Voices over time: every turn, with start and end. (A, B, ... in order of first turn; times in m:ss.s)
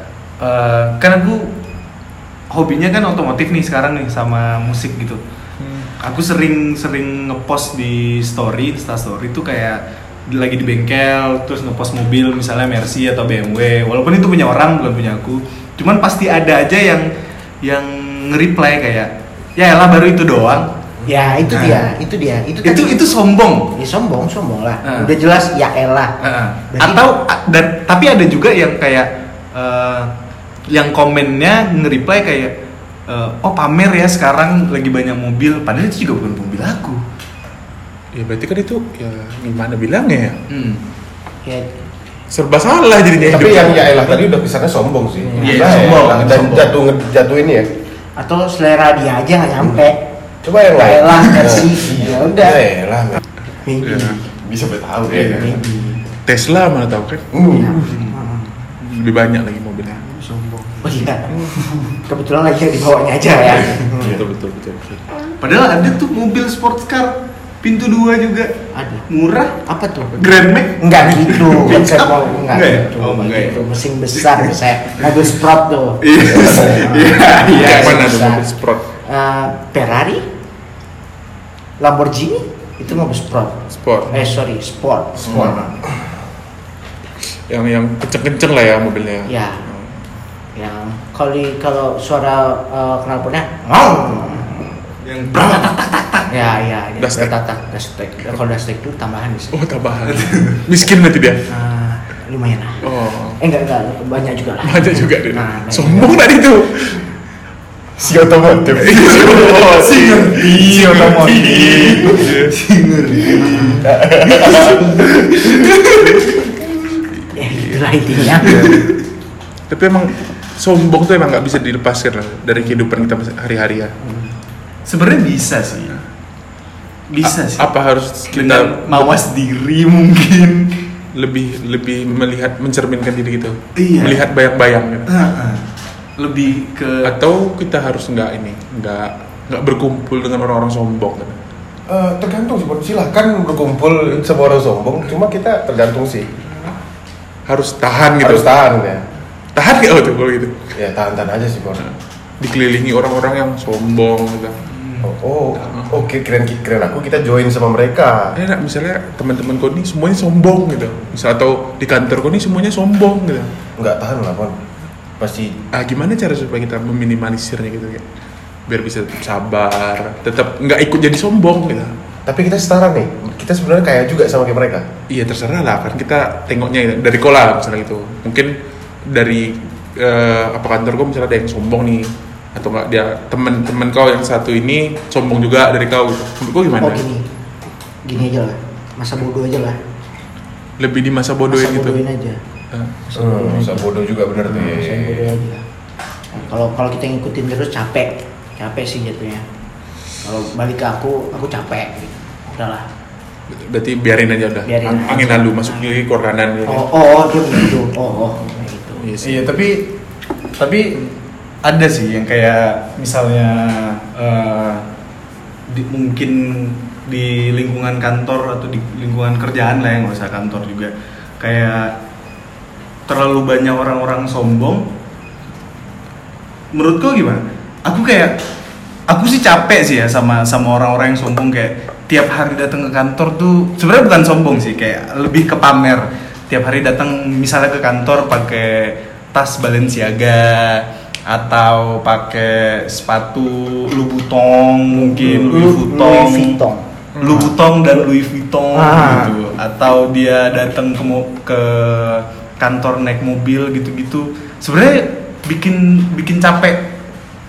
0:00.4-0:01.5 A
0:02.5-0:05.2 A
0:05.6-0:05.9 B
0:06.0-0:17.1 A
0:17.6-0:21.9 A
0:21.0-0:23.0 C
0:22.6-0:23.7 A
0:23.7-0:26.1 C
0:24.8-0:25.1 A
0:26.2-0:30.1 A
0:26.7-0:27.1 C
0:30.7-0:37.0 A
0:38.1-0:40.4 B
0:40.5-0:40.8 A
0:41.4-0:41.7 C
0:42.3-0:44.2 B
0:43.2-0:47.7 D
0:45.3-0:45.8 C
0:45.4-0:46.7 B
0:45.4-0:46.4 A
0:48.2-0:50.0 C
0:50.4-0:53.2 D
0:50.7-0:52.6 C
0:53.6-0:54.2 C
0:53.8-0:54.2 B
0:54.4-0:55.6 D
0:55.1-0:55.6 A
0:55.1-0:56.0 C
0:56.2-0:57.2 B
0:57.3-0:57.9 D
0:57.6-0:58.5 C
0:57.8-0:58.2 A
0:58.8-1:00.0 B
1:00.6-1:01.3 C
1:01.9-1:04.1 C
1:03.7-1:05.0 B
1:05.4-1:08.5 A
1:08.7-1:09.0 C
1:09.1-1:09.5 A
1:09.6-1:10.2 C
1:10.2-1:14.6 A
1:10.8-1:18.5 C
1:16.0-1:18.0 A
1:17.5-1:18.8 B
1:19.0-1:20.2 C
1:21.8-1:25.7 C
1:23.7-1:24.2 B
1:25.2-1:25.6 B
1:25.3-1:25.6 A
1:27.5-1:30.0 B
1:29.3-1:29.6 C
1:30.5-1:34.7 C
1:35.0-1:36.6 A
1:36.3-1:39.6 C
1:37.0-1:37.3 B
1:39.5-1:41.4 B
1:40.0-1:40.6 A
1:41.5-1:42.8 C
1:42.8-1:43.4 B
1:43.4-1:46.2 C
1:44.6-1:47.0 B
1:48.0-1:49.1 D
1:48.7-1:52.6 B
1:48.8-1:53.9 A
1:53.3-1:53.8 C
1:53.8-1:55.0 D
1:54.2-1:56.3 B
1:54.5-1:56.3 A
1:57.1-1:58.9 B
1:57.3-1:58.7 C
1:58.2-1:59.0 A
1:59.7-2:03.9 B
2:04.8-2:06.0 A
2:07.1-2:07.7 A
2:07.2-2:09.2 B
2:08.3-2:10.8 A
2:11.1-2:15.1 B
2:13.8-2:14.2 A
2:15.1-2:15.6 A
2:16.2-2:17.1 A
2:17.0-2:21.4 B
2:21.9-2:26.3 D
2:27.5-2:28.4 B
2:28.2-2:29.0 D
2:29.5-2:30.5 B
2:30.7-2:31.8 D
2:31.8-2:34.5 B
2:34.7-2:35.1 A
2:35.0-2:38.4 D
2:38.3-2:43.5 B
2:43.8-2:44.5 D
2:45.2-2:45.6 D
2:45.7-2:48.0 B
2:48.7-2:51.9 B
2:52.2-2:54.9 D
2:55.1-2:58.6 B
2:59.1-3:07.0 B
3:06.8-3:07.2 C
3:08.0-3:09.8 C
3:10.8-3:12.0 B
3:11.5-3:12.4 C
3:12.7-3:13.0 B
3:13.1-3:13.9 C
3:13.1-3:15.3 D
3:14.5-3:15.6 C
3:16.3-3:19.4 C
3:20.2-3:22.9 C
3:23.5-3:26.9 B
3:24.6-3:25.8 C
3:26.7-3:29.1 C
3:29.0-3:29.6 B
3:29.2-3:29.9 A
3:30.6-3:34.9 A
3:35.7-3:42.0 A
3:43.0-3:44.8 A
3:46.7-3:48.4 A
3:49.1-4:06.6 A
4:04.9-4:06.9 C
4:07.2-4:07.5 B
4:07.2-4:16.9 A
4:08.7-4:09.4 C